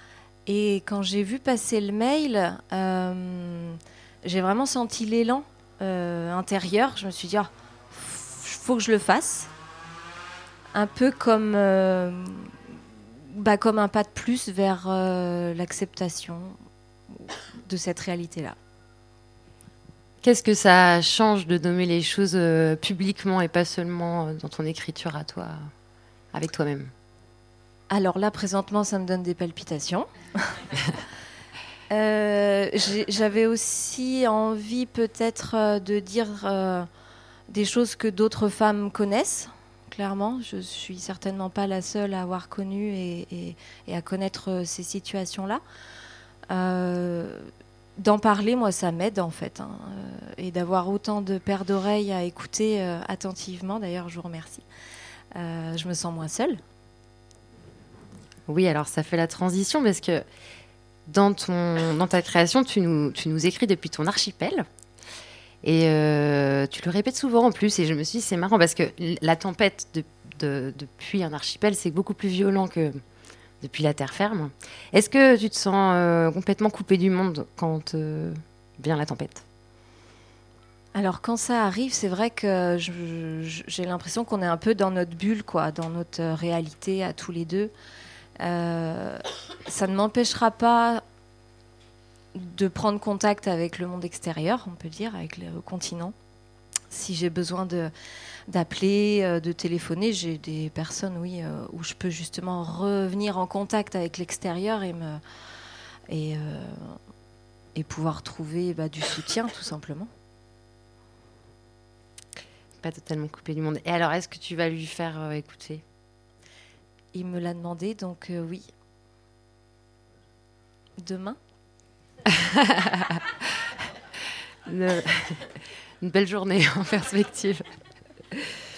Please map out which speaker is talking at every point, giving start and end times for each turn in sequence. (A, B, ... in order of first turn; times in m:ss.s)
0:00.4-0:09.5 A
0:10.7-0:16.6 A
0:17.1-0:18.6 A
0:20.2-0:25.7 B
0:26.3-0:26.9 B
0:27.9-0:30.1 A
0:31.9-0:36.9 A
0:37.5-0:45.6 A
0:46.5-0:54.7 A
0:55.3-0:56.6 A
0:58.4-1:00.2 B
1:01.0-1:04.6 B
1:05.6-1:13.0 B
1:13.6-1:19.4 B
1:20.9-1:27.7 A
1:28.4-1:31.0 A
1:32.3-1:36.2 A
1:36.9-1:37.9 A
1:38.5-1:45.2 A
1:46.1-1:47.0 A
1:47.7-1:50.1 A
1:52.8-1:55.8 B
1:57.1-1:58.7 A
2:01.0-2:01.4 A
2:04.6-2:07.7 B